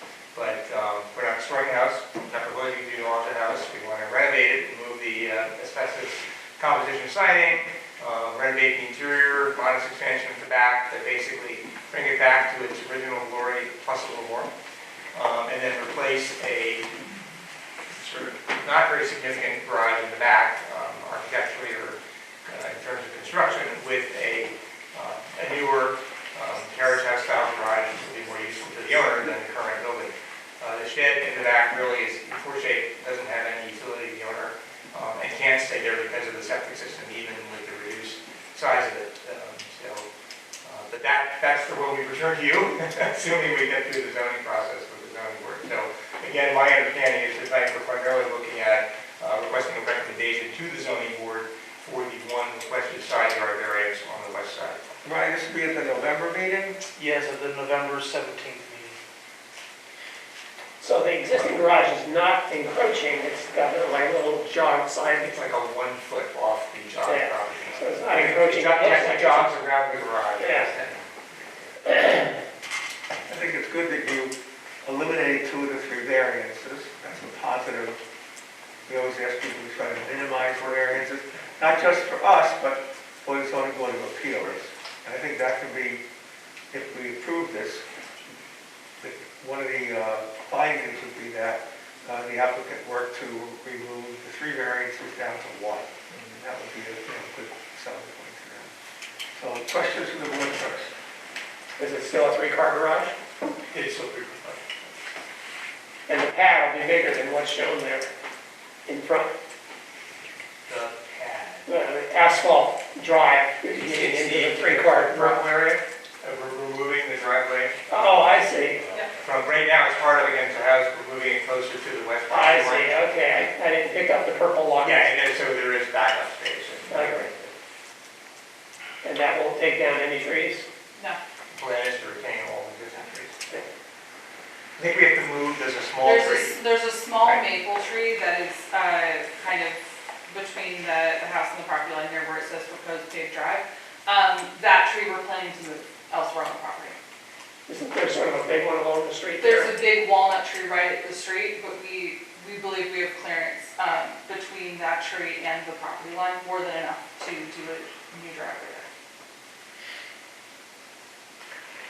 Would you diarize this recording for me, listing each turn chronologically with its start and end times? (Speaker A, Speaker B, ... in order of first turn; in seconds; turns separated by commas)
Speaker A: 0.3-14.5, Speaker A: 15.1-16.9, Speaker A: 17.9-40.1, Speaker A: 40.6-54.8, Speaker B: 55.0-56.8, Speaker C: 57.0-59.0, Speaker D: 60.8-65.3, Speaker A: 65.0-71.7, Speaker D: 66.9-69.5, Speaker D: 70.4-70.8, Speaker D: 71.9-72.3, Speaker B: 73.3-78.0, Speaker B: 78.9-86.0, Speaker B: 86.7-87.8, Speaker B: 89.0-98.7, Speaker B: 99.4-100.9, Speaker D: 101.8-103.1, Speaker A: 103.7-104.9, Speaker D: 106.1-108.1, Speaker D: 108.9-109.3, Speaker A: 110.7-111.7, Speaker D: 111.7-115.5, Speaker A: 113.8-118.3, Speaker D: 117.9-118.9, Speaker A: 119.2-123.0, Speaker D: 122.3-125.1, Speaker A: 124.8-127.5, Speaker D: 126.9-127.3, Speaker D: 129.0-130.7, Speaker A: 131.5-133.4, Speaker A: 134.8-136.5, Speaker E: 136.0-147.0, Speaker D: 147.7-149.8, Speaker E: 149.4-158.9